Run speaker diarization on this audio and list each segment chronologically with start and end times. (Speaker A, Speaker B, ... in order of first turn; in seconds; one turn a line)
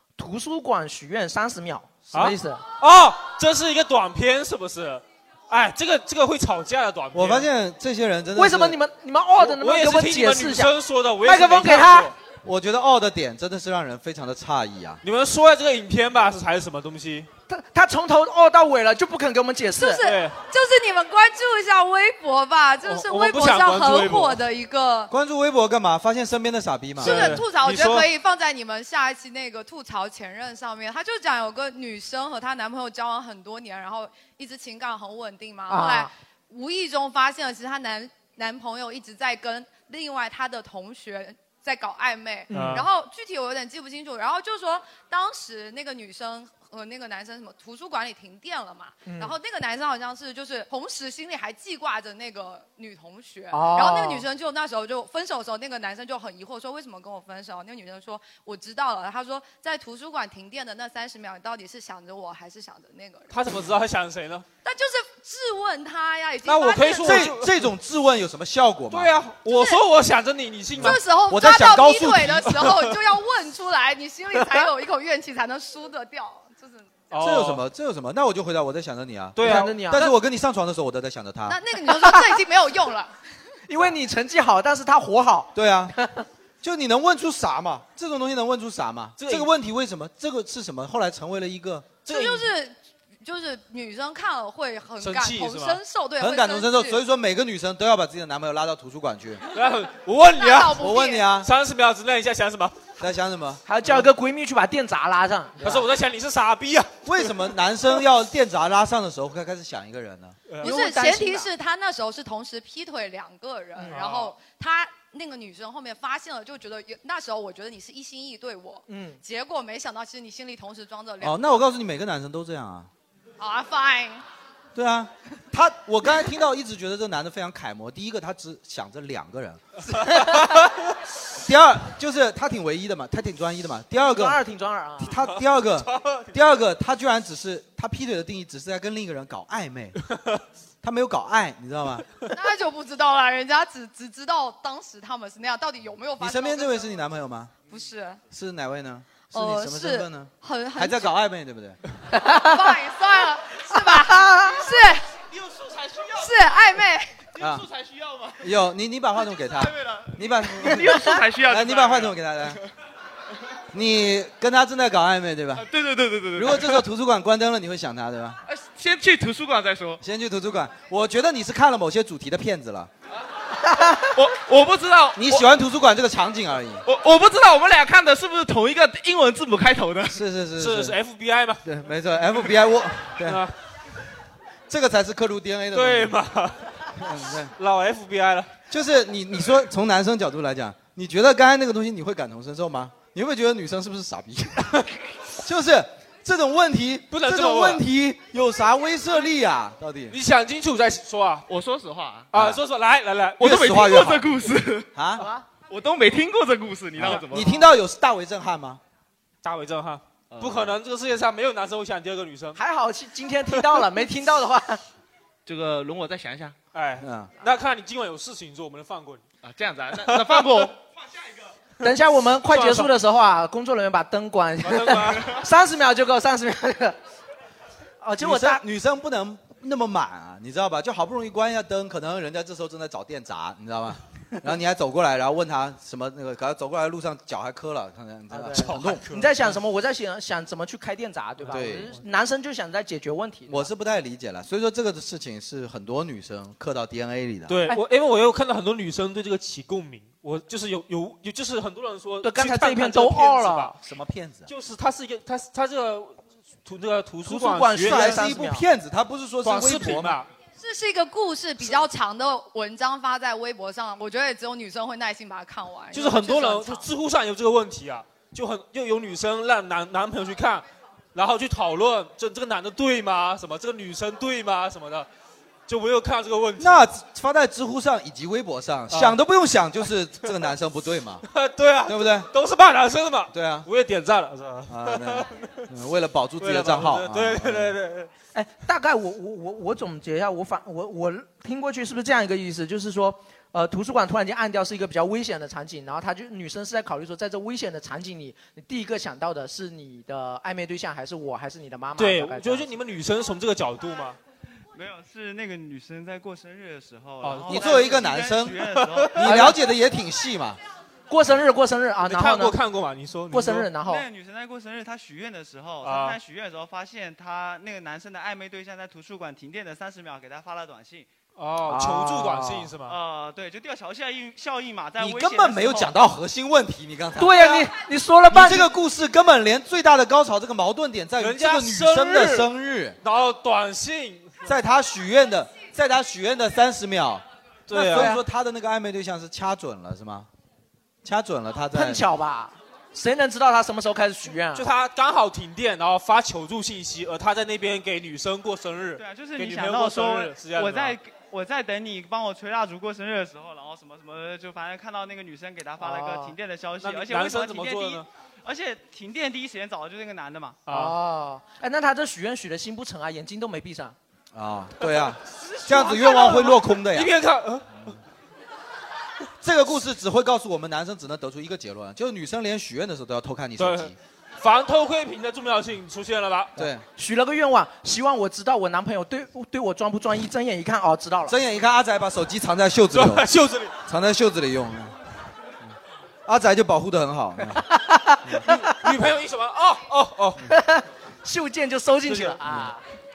Speaker A: 0.2-2.6
Speaker B: 2.1-7.5
Speaker C: 7.1-8.8
Speaker A: 8.3-12.1
Speaker B: 9.4-12.1
Speaker C: 12.4-15.0
Speaker B: 15.0-17.3
Speaker A: 17.5-20.0
Speaker D: 19.7-25.1
Speaker B: 20.0-20.4
Speaker B: 22.8-24.4
Speaker C: 25.1-27.4
Speaker B: 27.0-28.1
Speaker D: 27.0-63.3
Speaker A: 35.7-36.1
Speaker A: 42.5-42.9
Speaker B: 42.5-42.9
Speaker A: 49.0-49.4
Speaker A: 53.5-54.2
Speaker B: 63.3-64.5
Speaker D: 64.6-67.3
Speaker B: 66.4-67.6
Speaker C: 67.0-69.1
Speaker B: 68.9-71.0
Speaker D: 69.5-69.8
Speaker D: 70.8-77.2
Speaker C: 70.8-72.8
Speaker B: 77.1-77.6
Speaker C: 77.2-81.6
Speaker B: 79.3-80.1
Speaker A: 79.4-80.1
Speaker D: 81.5-83.1
Speaker A: 81.8-82.4
Speaker A: 83.7-86.2
Speaker C: 85.5-85.9
Speaker C: 86.6-92.0
Speaker B: 89.2-89.5
Speaker D: 92.0-97.0
Speaker B: 92.1-92.5
Speaker B: 95.0-95.8
Speaker C: 96.2-99.4
Speaker B: 99.5-102.9
Speaker D: 100.3-101.2
Speaker C: 100.8-101.5
Speaker C: 103.0-103.6
Speaker A: 103.7-105.9
Speaker B: 105.6-107.5
Speaker C: 107.0-110.4
Speaker B: 110.5-110.7
Speaker D: 110.6-121.4
Speaker A: 110.6-111.5
Speaker B: 113.9-114.3
Speaker A: 118.9-119.2
Speaker C: 121.2-122.9
Speaker D: 123.4-124.2
Speaker C: 124.7-129.8
Speaker A: 129.9-130.4
Speaker B: 130.2-130.9
Speaker C: 131.3-134.4
Speaker A: 134.0-135.2
Speaker C: 135.0-140.0
Speaker B: 135.2-136.3
Speaker C: 140.8-142.1
Speaker D: 142.3-146.9
Speaker C: 146.2-147.5
Speaker D: 147.7-148.2
Speaker C: 148.3-151.8
Speaker D: 149.3-151.1
Speaker A: 152.1-152.6
Speaker D: 152.2-155.1
Speaker A: 153.7-154.6
Speaker E: 155.4-156.2
Speaker D: 156.2-157.3
Speaker C: 157.4-157.7
Speaker E: 157.5-158.4
Speaker C: 158.4-162.6
Speaker E: 159.8-162.1
Speaker F: 160.7-161.9
Speaker C: 163.7-165.7
Speaker E: 165.6-166.6
Speaker F: 166.0-166.4
Speaker C: 166.3-168.4
Speaker E: 168.5-170.0
Speaker F: 168.8-170.0
Speaker C: 170.0-172.9
Speaker A: 173.7-174.1
Speaker E: 174.1-175.3
Speaker F: 174.4-175.4
Speaker C: 175.1-176.8
Speaker E: 176.9-180.1
Speaker F: 176.9-180.1
Speaker C: 180.1-181.0
Speaker B: 180.6-181.6
Speaker C: 181.6-183.4
Speaker B: 183.1-183.6
Speaker C: 184.7-186.2
Speaker B: 185.7-188.5
Speaker C: 186.9-187.5
Speaker C: 188.7-200.2
Speaker B: 197.1-197.8
Speaker B: 200.1-201.5
Speaker E: 201.5-202.3
Speaker F: 201.6-202.1
Speaker B: 202.3-204.1
Speaker C: 202.3-202.6
Speaker C: 203.4-204.4
Speaker F: 203.5-204.8
Speaker E: 203.5-204.9
Speaker C: 204.9-205.2
Speaker A: 205.2-205.4
Speaker E: 205.7-207.6
Speaker F: 205.7-207.4
Speaker C: 207.0-208.8
Speaker B: 207.0-207.2
Speaker B: 209.4-212.6
Speaker E: 210.3-210.7
Speaker A: 212.5-214.8
Speaker E: 215.5-216.5
Speaker F: 215.5-216.5
Speaker B: 216.7-219.2
Speaker C: 217.0-217.3
Speaker F: 219.5-220.7
Speaker E: 219.9-220.7
Speaker B: 219.9-220.7
Speaker A: 221.8-227.0
Speaker B: 222.5-222.9
Speaker B: 224.6-225.4
Speaker A: 228.0-228.6
Speaker C: 228.2-239.0
Speaker A: 238.3-243.7
Speaker B: 238.5-239.6
Speaker B: 241.4-242.0
Speaker C: 241.5-241.9
Speaker C: 243.5-247.6
Speaker B: 247.5-253.7
Speaker A: 252.2-253.8
Speaker C: 253.8-254.5
Speaker B: 254.5-258.3
Speaker A: 257.2-258.6
Speaker C: 257.8-260.2
Speaker B: 259.4-260.3
Speaker D: 260.6-266.9
Speaker B: 265.9-275.1
Speaker B: 275.7-276.9
Speaker C: 276.6-281.3
Speaker B: 278.9-279.2
Speaker B: 281.3-285.7
Speaker C: 281.8-282.3
Speaker C: 283.3-283.7
Speaker C: 284.7-287.8
Speaker B: 286.4-288.1
Speaker A: 288.3-302.7
Speaker B: 302.0-304.2
Speaker E: 304.7-309.4
Speaker B: 307.2-307.9
Speaker C: 307.5-308.6
Speaker B: 308.5-309.4
Speaker C: 309.1-310.6
Speaker A: 309.2-309.6
Speaker A: 311.1-312.6
Speaker B: 312.1-313.7
Speaker A: 313.3-314.0
Speaker E: 313.8-321.1
Speaker B: 315.8-316.2
Speaker B: 321.4-323.0
Speaker A: 321.6-322.7
Speaker E: 322.8-325.9
Speaker C: 325.0-327.7
Speaker A: 327.2-328.7
Speaker C: 328.3-333.0
Speaker B: 331.2-332.5
Speaker B: 333.0-334.5
Speaker C: 334.4-340.3
Speaker B: 337.7-338.1
Speaker A: 337.9-338.2
Speaker C: 341.0-342.0
Speaker A: 341.7-344.6
Speaker B: 344.5-351.0
Speaker E: 349.0-360.6
Speaker A: 355.8-356.3
Speaker B: 356.8-358.1
Speaker B: 360.7-361.0
Speaker A: 360.7-363.9
Speaker C: 364.3-367.1
Speaker A: 365.6-366.4
Speaker B: 365.7-367.9
Speaker C: 369.4-374.0
Speaker B: 373.6-376.7
Speaker C: 376.6-376.9
Speaker A: 376.9-381.4
Speaker C: 381.2-383.3
Speaker B: 382.9-383.8
Speaker C: 383.8-385.0
Speaker C: 386.2-387.7
Speaker A: 387.6-388.8
Speaker B: 388.3-390.5
Speaker A: 390.4-392.8
Speaker B: 392.1-392.4